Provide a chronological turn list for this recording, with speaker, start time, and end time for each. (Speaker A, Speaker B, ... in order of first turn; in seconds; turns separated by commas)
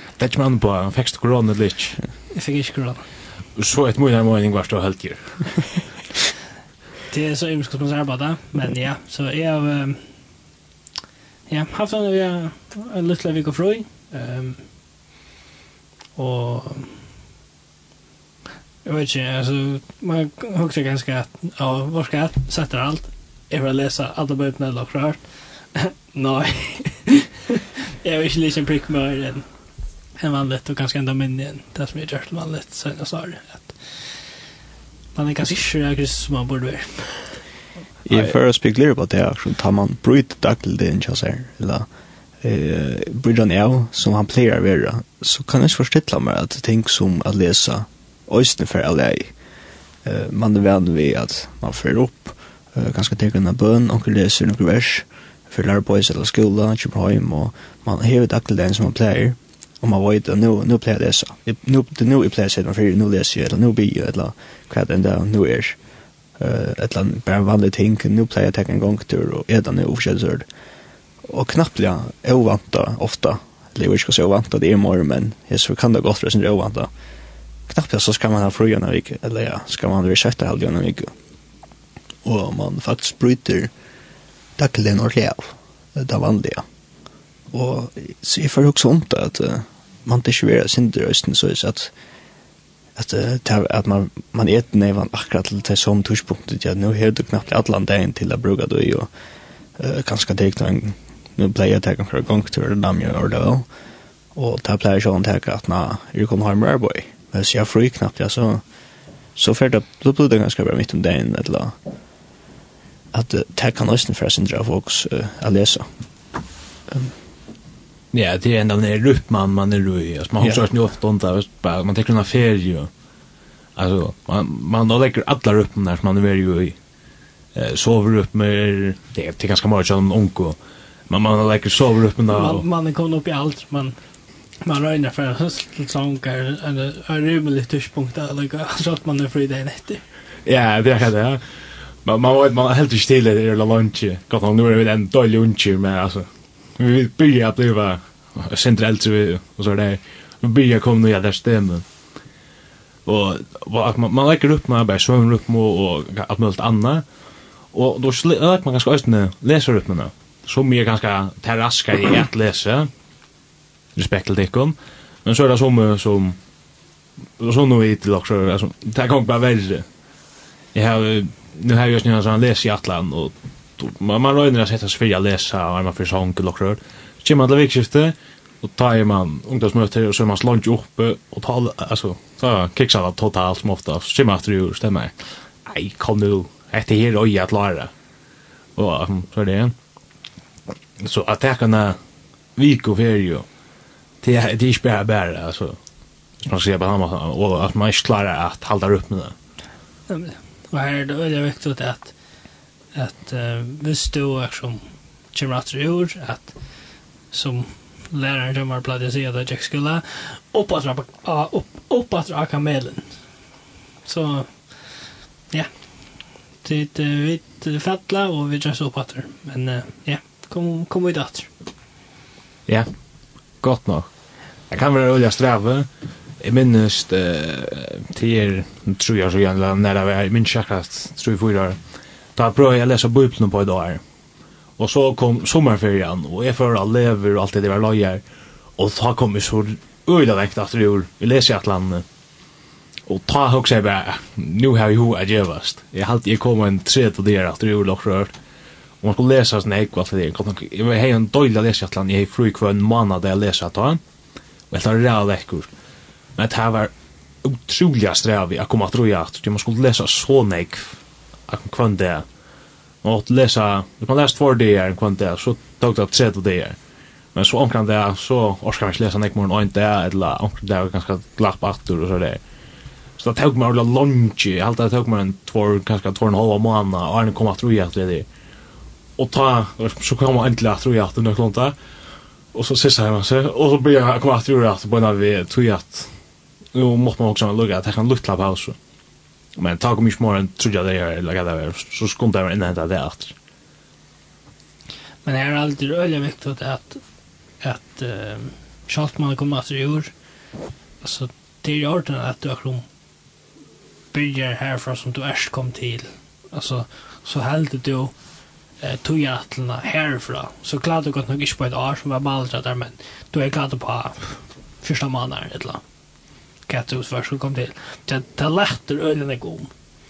Speaker A: 0.2-2.0, Speaker B: 2.3-3.1, Speaker A: 3.6-5.7, Speaker B: 7.1-10.1, Speaker B: 11.5-14.7, Speaker B: 16.2-17.0, Speaker B: 18.9-27.3, Speaker B: 28.0-29.5, Speaker B: 30.2-34.1, Speaker B: 35.1-37.4, Speaker C: 38.0-41.9, Speaker C: 42.4-49.3, Speaker C: 50.0-65.8, Speaker C: 66.4-70.5, Speaker C: 71.2-76.9, Speaker C: 77.7-81.1, Speaker C: 82.2-83.7, Speaker C: 84.6-86.7, Speaker C: 87.5-91.9, Speaker C: 93.0-99.1, Speaker C: 99.8-103.7, Speaker C: 104.3-108.6, Speaker C: 109.4-111.8, Speaker C: 113.1-115.9, Speaker A: 118.1-122.9, Speaker C: 120.4-120.7, Speaker A: 123.8-126.8, Speaker A: 127.5-130.6, Speaker A: 131.1-132.6, Speaker B: 132.3-134.0, Speaker B: 134.6-140.0, Speaker A: 140.4-141.4, Speaker A: 142.0-151.8, Speaker A: 153.1-157.0, Speaker A: 157.7-162.9, Speaker A: 164.0-166.4, Speaker A: 167.4-169.9, Speaker A: 170.7-185.1, Speaker A: 185.7-187.9, Speaker A: 188.8-189.7, Speaker A: 191.0-192.0, Speaker A: 192.6-193.5, Speaker A: 194.2-195.8, Speaker A: 196.4-199.3, Speaker B: 200.1-202.1, Speaker B: 202.9-204.8, Speaker B: 205.3-206.8, Speaker B: 207.3-213.2, Speaker B: 214.1-221.5, Speaker A: 223.6-224.1, Speaker A: 224.7-225.9, Speaker A: 226.4-231.8, Speaker A: 232.4-234.0, Speaker A: 234.8-238.2, Speaker A: 238.8-242.1, Speaker A: 243.1-248.3, Speaker A: 249.0-254.0, Speaker A: 254.7-255.7, Speaker A: 256.4-256.9, Speaker A: 257.4-262.2, Speaker A: 263.0-266.8, Speaker A: 267.3-272.4, Speaker A: 273.2-278.3, Speaker A: 279.2-281.8, Speaker A: 282.5-286.1, Speaker A: 286.7-288.8, Speaker A: 289.6-293.3, Speaker B: 295.2-297.0, Speaker B: 297.6-300.1, Speaker B: 301.0-302.9, Speaker B: 304.1-308.1, Speaker B: 308.8-315.8, Speaker B: 316.7-319.7